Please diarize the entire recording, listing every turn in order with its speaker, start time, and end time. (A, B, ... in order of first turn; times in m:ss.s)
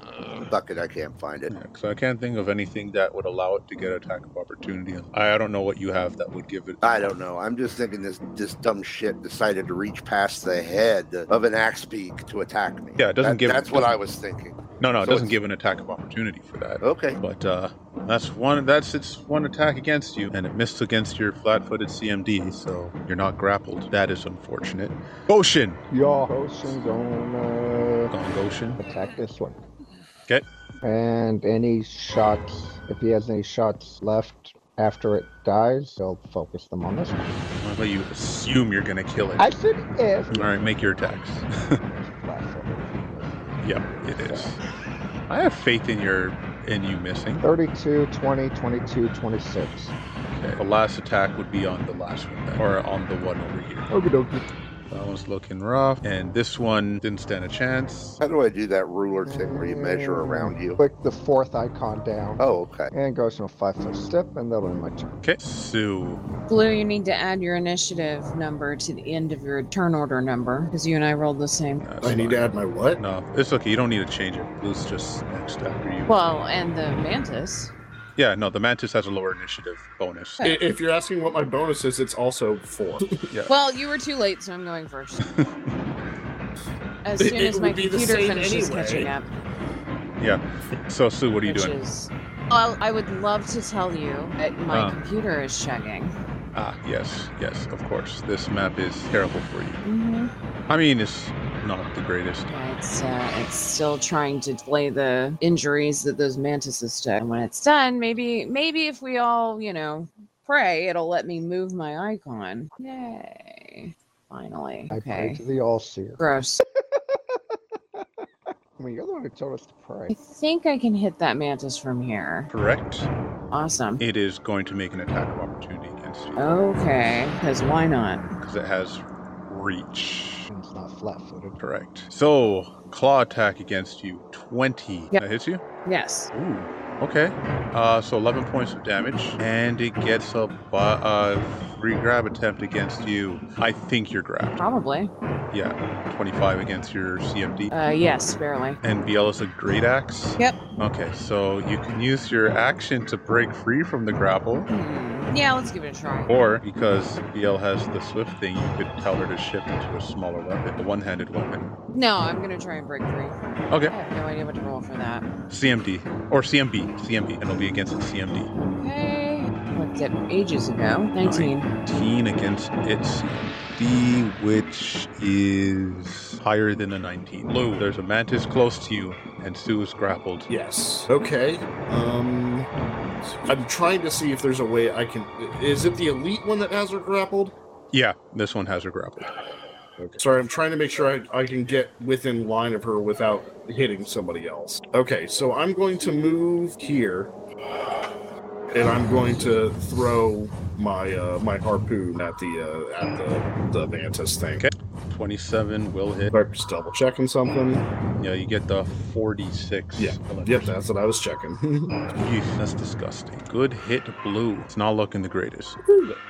0:00.4-0:01.6 A
0:01.5-0:07.1 B
0:06.8-0:15.4 A
0:13.0-0:14.0 B
0:14.8-0:25.8 B
0:16.8-0:17.2 A
0:25.9-0:28.1 C
0:28.1-0:28.8 B
0:28.8-0:29.6 C
0:30.8-0:37.4 C
0:37.6-0:39.5 B
0:39.4-0:41.0 C
0:40.3-0:41.8 B
0:41.8-0:44.6 C
0:43.6-0:44.6 B
0:45.3-0:47.4 B
0:47.4-0:49.9 C
0:50.3-0:53.9 B
0:53.9-0:54.4 C
0:54.9-0:58.2 B
0:58.2-1:00.8 A
0:59.3-1:05.1 C
1:02.4-1:02.9 A
1:05.2-1:06.2 B
1:06.5-1:11.9 D
1:11.8-1:16.2 B
1:12.0-1:13.0 E
1:16.1-1:17.7 D
1:18.2-1:20.4 B
1:20.4-1:23.3 E
1:23.5-1:25.3 D
1:27.0-1:29.3 D
1:27.2-1:29.2 E
1:30.2-1:31.8 B
1:31.4-1:36.2 D
1:34.7-1:35.0 B
1:36.6-1:39.8 B
1:39.8-1:40.3 D
1:40.7-1:42.5 B
1:42.5-1:55.4 D
1:54.9-1:56.2 C
1:56.2-1:56.6 D
1:57.0-1:57.4 C
1:58.0-2:00.1 C
2:00.1-2:02.5 D
2:02.5-2:03.1 B
2:03.5-2:04.0 D
2:04.0-2:06.8 B
2:06.4-2:08.3 D
2:08.4-2:10.5 B
2:10.5-2:11.6 C
2:11.6-2:15.6 B
2:15.8-2:16.3 D
2:16.3-2:24.6 B
2:24.6-2:25.1 D
2:25.5-2:27.7 B
2:27.7-2:28.8 D
2:28.8-2:34.7 B
2:34.7-2:36.3 D
2:36.3-2:41.7 B
2:41.9-2:43.4 D
2:43.9-2:45.3 D
2:45.5-2:48.5 B
2:48.8-2:51.7 D
2:51.2-3:00.5 B
3:00.5-3:02.7 E
3:03.3-3:07.5 E
3:07.9-3:09.4 B
3:10.0-3:17.4 E
3:18.7-3:24.6 E
3:24.6-3:26.3 B
3:26.3-3:27.9 E
3:28.2-3:30.8 B
3:30.0-3:32.0 E
3:32.1-3:35.9 B